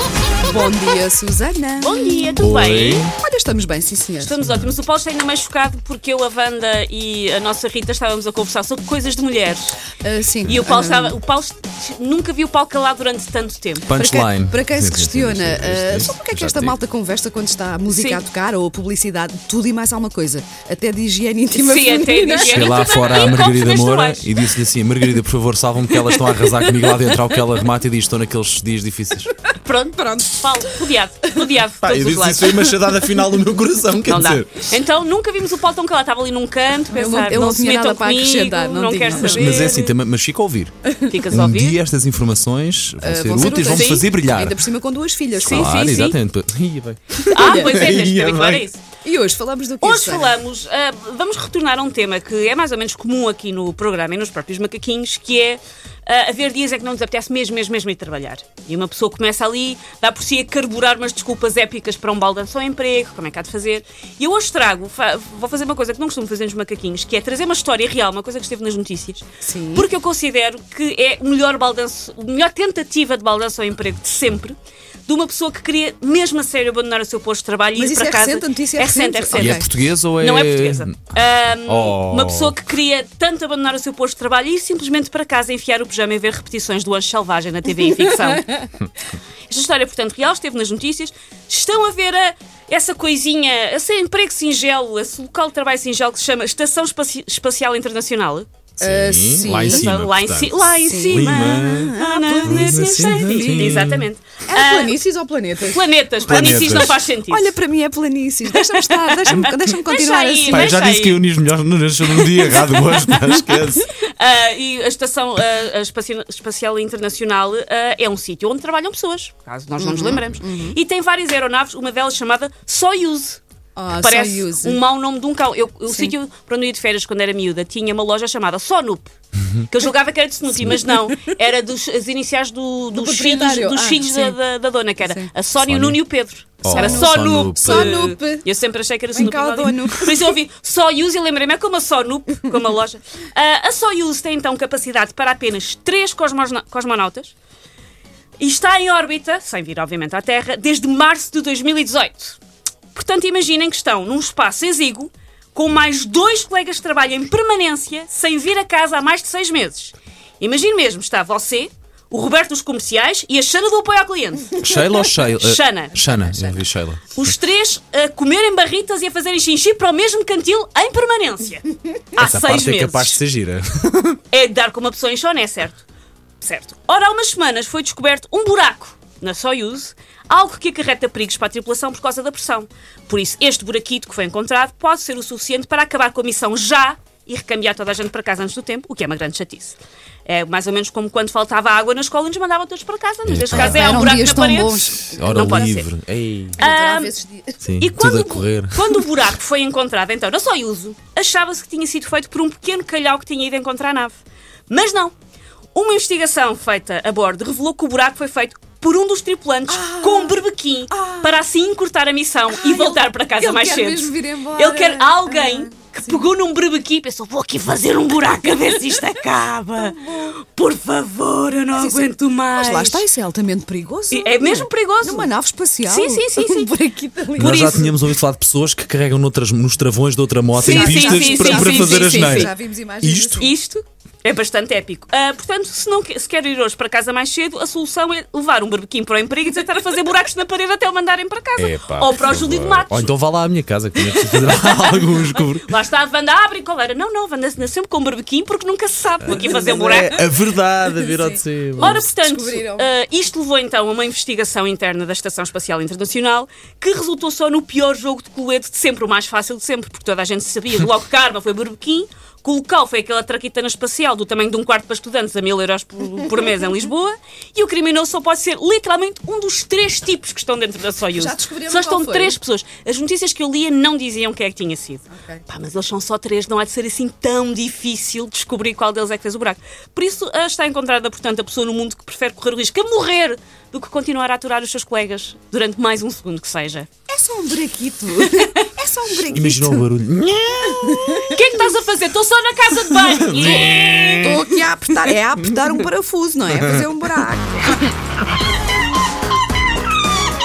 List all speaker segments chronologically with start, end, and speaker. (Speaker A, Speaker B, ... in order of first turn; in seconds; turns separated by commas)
Speaker A: 0.4-2.4, Speaker B: 1.8-3.1, Speaker C: 2.4-3.1, Speaker A: 3.1-4.4, Speaker B: 4.2-9.8, Speaker C: 4.5-4.7, Speaker A: 10.0-11.2, Speaker B: 10.4-13.9, Speaker C: 13.9-16.8, Speaker A: 13.9-23.0, Speaker B: 17.9-18.2, Speaker B: 21.6-24.3, Speaker C: 22.4-29.3, Speaker B: 29.6-32.7, Speaker C: 31.8-34.6, Speaker B: 34.1-39.8, Speaker A: 36.9-39.9, Speaker C: 39.1-40.8, Speaker B: 41.1-41.8, Speaker C: 41.3-44.6, Speaker A: 43.0-46.1, Speaker B: 43.6-44.1, Speaker C: 45.4-48.7, Speaker B: 45.4-46.2, Speaker B: 47.2-48.8, Speaker A: 47.3-47.9, Speaker A: 49.0-50.3, Speaker B: 49.8-88.7, Speaker A: 69.4-69.9, Speaker A: 77.8-79.7, Speaker C: 79.3-81.1, Speaker C: 81.7-82.6, Speaker B: 89.5-98.5, Speaker A: 98.8-99.9, Speaker C: 98.8-101.9, Speaker B: 99.5-105.0, Speaker A: 100.8-103.9, Speaker C: 102.4-104.1, Speaker A: 104.5-110.8, Speaker B: 105.7-107.6, Speaker C: 106.2-107.0, Speaker B: 108.6-111.2, Speaker C: 110.5-113.9, Speaker B: 112.5-123.4, Speaker A: 119.8-120.8, Speaker A: 123.8-124.8, Speaker B: 124.0-147.3, Speaker A: 132.9-134.4, Speaker A: 135.0-135.3, Speaker C: 135.6-136.0, Speaker C: 136.6-138.2, Speaker A: 136.7-138.4, Speaker A: 139.1-140.3, Speaker B: 148.4-152.4, Speaker B: 152.9-164.6, Speaker C: 164.6-167.3, Speaker B: 165.2-166.4, Speaker B: 167.1-173.2, Speaker C: 172.2-174.2, Speaker B: 174.3-175.8, Speaker B: 176.4-195.9, Speaker C: 193.3-194.3, Speaker A: 193.5-195.7, Speaker C: 194.9-196.6, Speaker A: 196.6-197.6, Speaker B: 196.6-197.2, Speaker C: 197.6-199.2, Speaker B: 197.8-205.2, Speaker B: 205.7-223.1, Speaker A: 209.7-210.4, Speaker A: 210.9-211.4, Speaker A: 212.5-216.2, Speaker A: 219.8-220.3, Speaker A: 221.7-228.0, Speaker B: 224.1-225.3, Speaker B: 225.8-226.7, Speaker C: 227.4-233.5, Speaker B: 230.6-232.5, Speaker A: 230.6-233.5, Speaker B: 233.4-243.1, Speaker C: 241.6-245.7, Speaker B: 244.1-250.2, Speaker C: 249.2-252.1, Speaker A: 249.7-250.0, Speaker A: 250.9-252.9, Speaker B: 251.8-286.9, Speaker A: 271.1-272.4, Speaker A: 275.1-275.4, Speaker A: 287.1-289.8, Speaker C: 289.3-291.3, Speaker B: 291.1-294.5, Speaker C: 292.9-294.4, Speaker A: 294.2-297.8